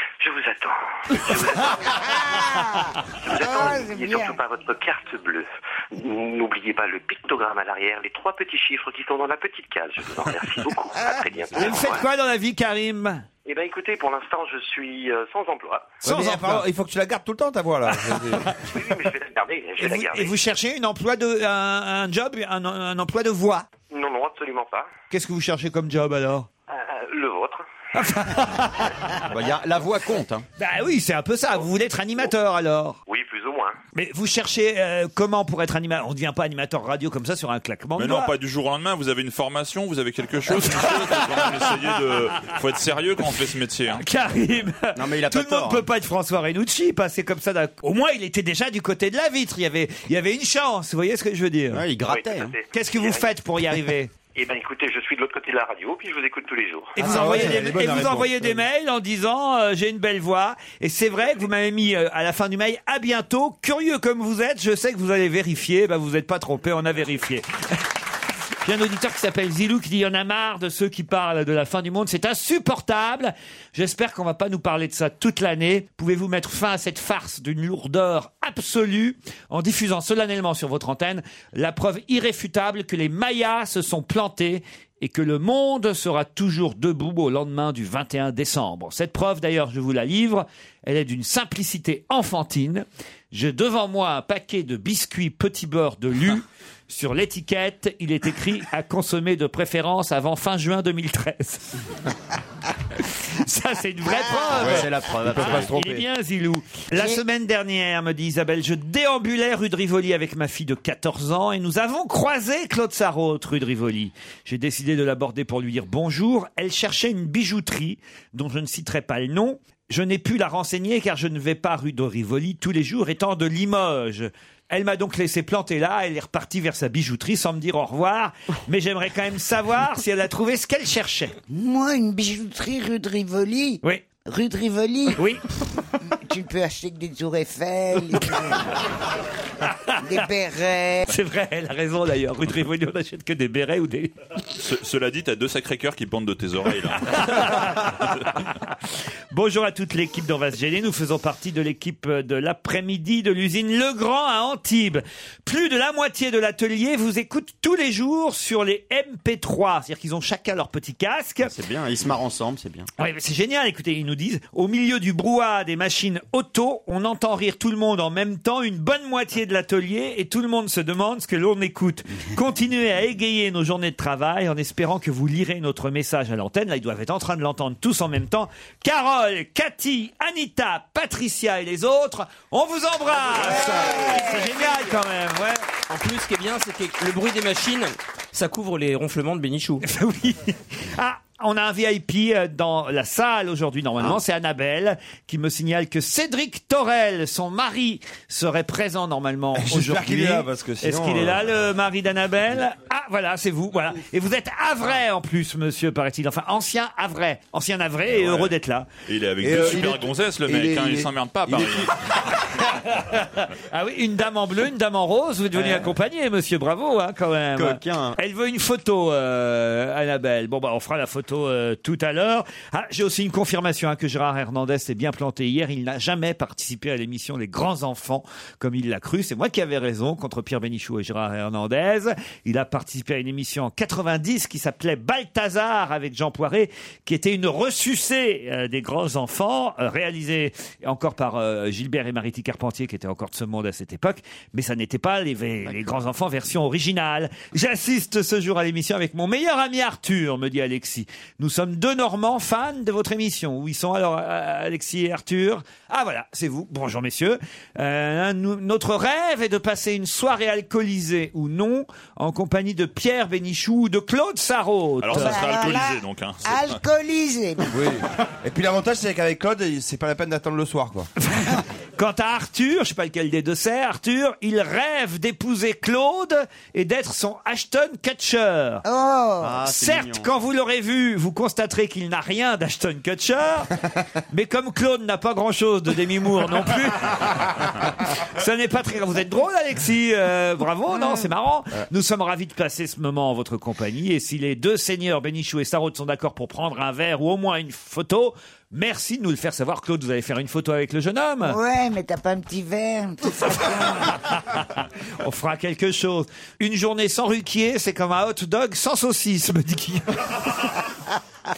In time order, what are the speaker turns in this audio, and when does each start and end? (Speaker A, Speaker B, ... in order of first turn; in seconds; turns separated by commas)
Speaker A: 0.2-2.3, Speaker B: 1.9-4.4, Speaker A: 3.1-12.1, Speaker C: 11.6-13.3, Speaker A: 13.4-16.0, Speaker C: 16.0-16.6, Speaker D: 16.0-18.5, Speaker A: 18.6-20.4, Speaker C: 19.8-23.7, Speaker A: 23.9-24.9, Speaker C: 25.1-26.5, Speaker A: 26.7-27.7, Speaker C: 27.9-29.2, Speaker E: 29.3-30.4, Speaker C: 30.6-33.0, Speaker A: 33.1-33.8, Speaker C: 34.0-38.3, Speaker F: 38.0-44.0, Speaker C: 40.6-41.7, Speaker C: 44.0-51.9, Speaker E: 45.0-45.9, Speaker E: 51.7-52.6, Speaker A: 52.1-53.3, Speaker C: 52.7-54.1, Speaker A: 54.3-57.0, Speaker C: 57.0-67.9, Speaker D: 57.0-58.6, Speaker C: 68.6-101.8, Speaker C: 103.0-131.4, Speaker E: 104.5-105.7, Speaker D: 104.6-106.0, Speaker B: 131.5-135.2, Speaker C: 135.2-135.4, Speaker B: 136.0-138.8, Speaker C: 139.7-140.0, Speaker B: 140.0-141.1, Speaker C: 141.1-144.1, Speaker F: 144.6-148.2, Speaker C: 147.1-148.3, Speaker C: 149.3-161.5, Speaker E: 161.4-162.9, Speaker C: 163.0-185.7, Speaker B: 183.9-184.2, Speaker G: 185.9-189.8, Speaker C: 189.8-208.9, Speaker D: 199.5-201.4, Speaker F: 208.2-208.5, Speaker F: 209.1-211.9, Speaker D: 209.4-211.9, Speaker C: 212.5-265.4, Speaker E: 215.6-215.9, Speaker E: 217.6-218.2, Speaker F: 265.0-266.8, Speaker B: 265.1-267.8, Speaker D: 267.7-271.1, Speaker C: 271.2-278.9, Speaker B: 278.9-279.6, Speaker E: 279.4-280.3, Speaker C: 279.7-301.6, Speaker B: 301.4-304.2, Speaker C: 304.0-310.7